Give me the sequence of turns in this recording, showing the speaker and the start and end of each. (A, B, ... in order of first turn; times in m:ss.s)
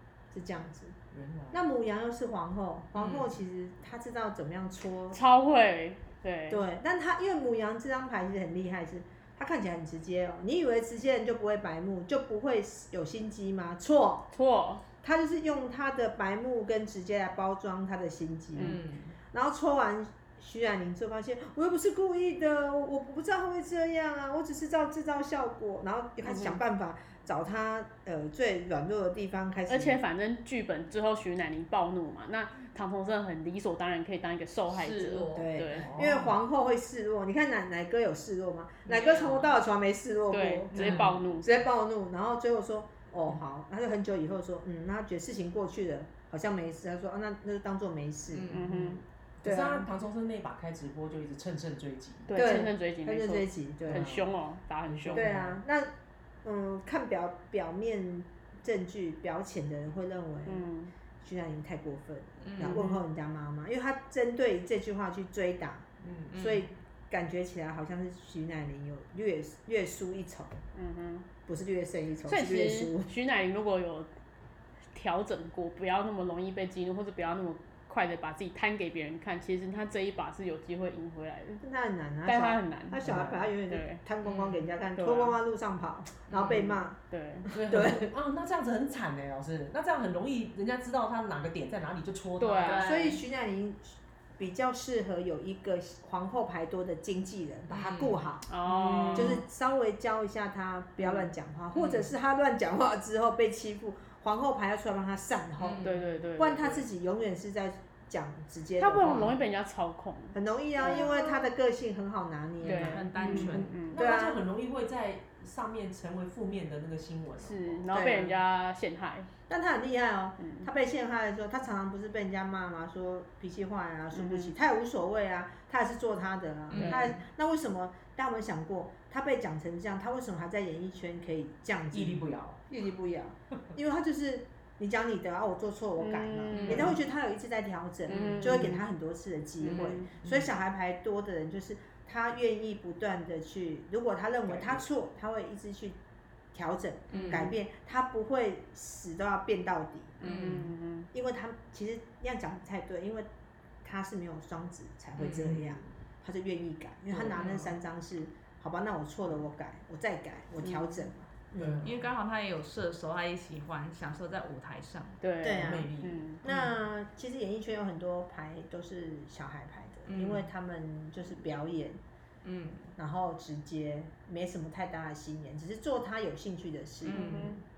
0:00.3-0:01.0 A
0:01.1-0:01.6 B
0:01.5-0:05.2 A
0:03.0-0:03.3 C
0:05.1-0:06.6 D
0:06.5-0:14.3 A
0:14.3-0:14.8 D
0:15.0-0:18.8 A
0:18.6-0:19.2 C
0:19.3-0:30.0 A
0:26.2-0:26.6 D
0:29.7-0:35.9 D
0:34.7-0:35.9 C
0:35.3-0:48.6 A
0:35.7-0:36.3 B
0:38.8-0:39.5 C
0:40.3-0:41.5 D
0:40.8-0:41.2 C
0:48.3-0:48.6 C
0:48.5-0:49.0 D
0:48.6-0:52.4 B
0:49.4-0:49.9 A
0:52.3-0:55.2 D
0:52.3-0:54.1 A
0:53.9-0:54.3 B
0:54.9-0:55.6 B
0:55.1-0:55.9 A
0:56.4-1:00.7 A
1:00.5-1:00.9 D
1:01.2-1:05.8 A
1:02.4-1:03.0 C
1:06.0-1:06.4 B
1:06.3-1:06.7 C
1:06.4-1:10.6 A
1:10.7-1:11.3 D
1:11.5-1:13.1 A
1:12.3-1:14.1 D
1:14.9-1:21.6 D
1:21.6-1:28.1 A
1:22.2-1:23.0 D
1:23.0-1:23.5 B
1:23.7-1:24.0 D
1:24.2-1:24.6 C
1:25.0-1:25.4 D
1:26.3-1:26.7 C
1:27.1-1:27.5 D
1:27.5-1:32.8 B
1:32.4-1:32.9 D
1:32.6-1:33.2 C
1:32.8-1:38.5 A
1:37.7-1:38.2 C
1:38.5-1:39.4 D
1:38.7-1:39.4 B
1:39.1-1:49.4 A
1:41.0-1:41.3 D
1:41.7-1:42.1 C
1:45.6-1:46.0 C
1:45.8-1:46.8 D
1:48.8-1:51.5 D
1:50.3-1:54.4 A
1:52.6-1:54.0 D
1:52.6-1:53.8 C
1:53.8-1:57.9 B
1:57.4-1:59.3 D
1:57.9-1:58.4 A
1:59.5-2:26.0 A
2:00.4-2:00.7 D
2:04.1-2:04.5 D
2:06.7-2:07.1 C
2:06.8-2:07.1 D
2:11.9-2:12.6 B
2:16.0-2:17.0 D
2:16.5-2:17.0 C
2:18.1-2:18.8 D
2:18.1-2:18.6 B
2:19.6-2:20.1 D
2:19.6-2:20.0 C
2:20.2-2:20.5 B
2:24.5-2:24.8 B
2:26.5-2:30.2 A
2:27.1-2:27.5 C
2:30.2-2:31.1 D
2:30.2-2:30.7 C
2:31.1-2:33.3 A
2:33.8-2:41.9 A
2:35.2-2:35.5 C
2:35.4-2:35.9 B
2:37.1-2:37.6 B
2:37.3-2:37.7 C
2:40.6-2:41.1 D
2:41.6-2:42.0 B
2:41.8-2:45.2 C
2:45.2-2:46.4 D
2:45.4-2:45.9 A
2:45.6-2:46.6 B
2:46.4-2:52.0 A
2:50.1-2:50.5 C
2:52.4-2:52.9 C
2:53.0-2:57.5 A
2:57.0-2:57.6 D
2:57.1-2:57.6 C